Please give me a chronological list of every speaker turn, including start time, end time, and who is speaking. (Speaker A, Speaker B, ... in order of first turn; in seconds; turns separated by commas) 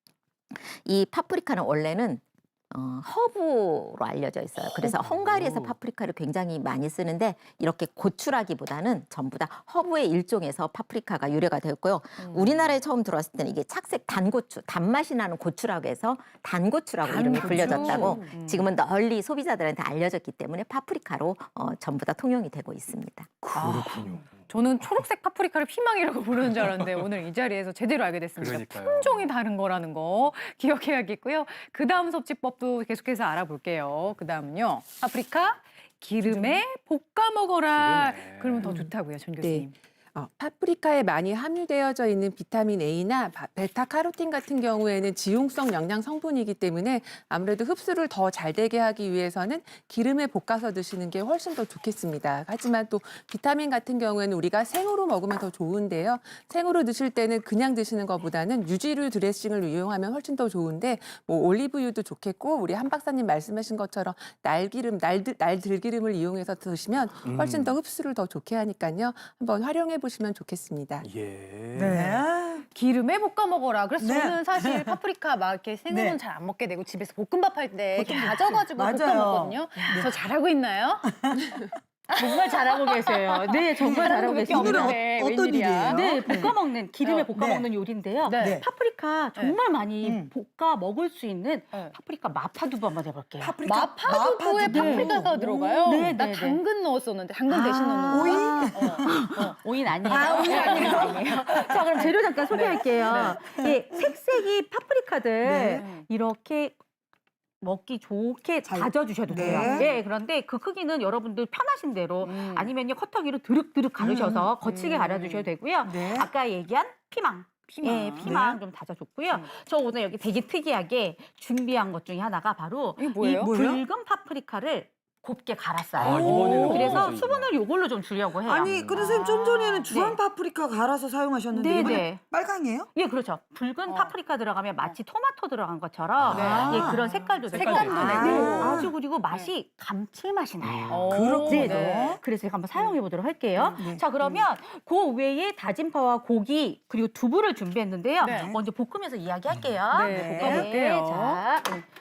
Speaker A: 0.6-23.3, Speaker B: 4.8-5.7, Speaker C: 17.0-18.3, Speaker D: 17.4-18.7, Speaker B: 23.4-24.4, Speaker D: 23.5-39.7, Speaker B: 26.4-27.1, Speaker B: 28.4-29.3, Speaker E: 36.2-36.6, Speaker B: 37.7-38.8, Speaker E: 38.6-71.1, Speaker B: 67.2-67.8, Speaker B: 71.0-72.2, Speaker C: 71.7-72.6, Speaker D: 72.7-81.1, Speaker C: 74.0-75.0, Speaker C: 75.9-76.2, Speaker C: 77.9-80.1, Speaker C: 81.0-81.8, Speaker F: 82.1-85.0, Speaker D: 82.2-86.2, Speaker C: 83.7-86.6, Speaker F: 85.9-93.6, Speaker D: 87.0-87.3, Speaker C: 87.3-87.7, Speaker D: 88.2-88.6, Speaker C: 88.3-88.7, Speaker C: 90.0-90.3, Speaker C: 93.4-96.2, Speaker D: 93.6-103.4, Speaker F: 94.7-95.3, Speaker F: 95.9-96.6, Speaker F: 97.5-106.8, Speaker C: 98.1-99.3, Speaker C: 99.8-104.1, Speaker C: 105.4-105.9, Speaker D: 105.8-106.0, Speaker F: 107.6-130.2, Speaker C: 108.6-110.0, Speaker D: 109.5-109.9, Speaker D: 112.2-112.7, Speaker C: 114.0-114.5, Speaker D: 114.6-115.5, Speaker C: 115.8-116.3, Speaker D: 117.7-118.3, Speaker C: 118.2-118.6, Speaker D: 123.0-123.5, Speaker C: 123.3-123.8, Speaker B: 126.0-127.5, Speaker D: 126.1-127.1, Speaker C: 126.3-126.9, Speaker C: 128.4-132.9, Speaker B: 128.6-129.1, Speaker D: 129.0-129.3, Speaker F: 131.5-132.2, Speaker F: 132.9-151.9, Speaker D: 133.9-134.1, Speaker B: 136.2-136.9, Speaker C: 136.3-138.9, Speaker D: 136.3-136.9, Speaker D: 137.5-139.5, Speaker B: 137.5-138.7, Speaker B: 140.6-141.0, Speaker D: 140.9-141.9, Speaker C: 141.1-142.2, Speaker D: 143.6-144.4, Speaker C: 143.8-144.2, Speaker D: 148.2-148.5, Speaker C: 148.2-148.6, Speaker D: 149.9-151.4, Speaker C: 150.0-150.7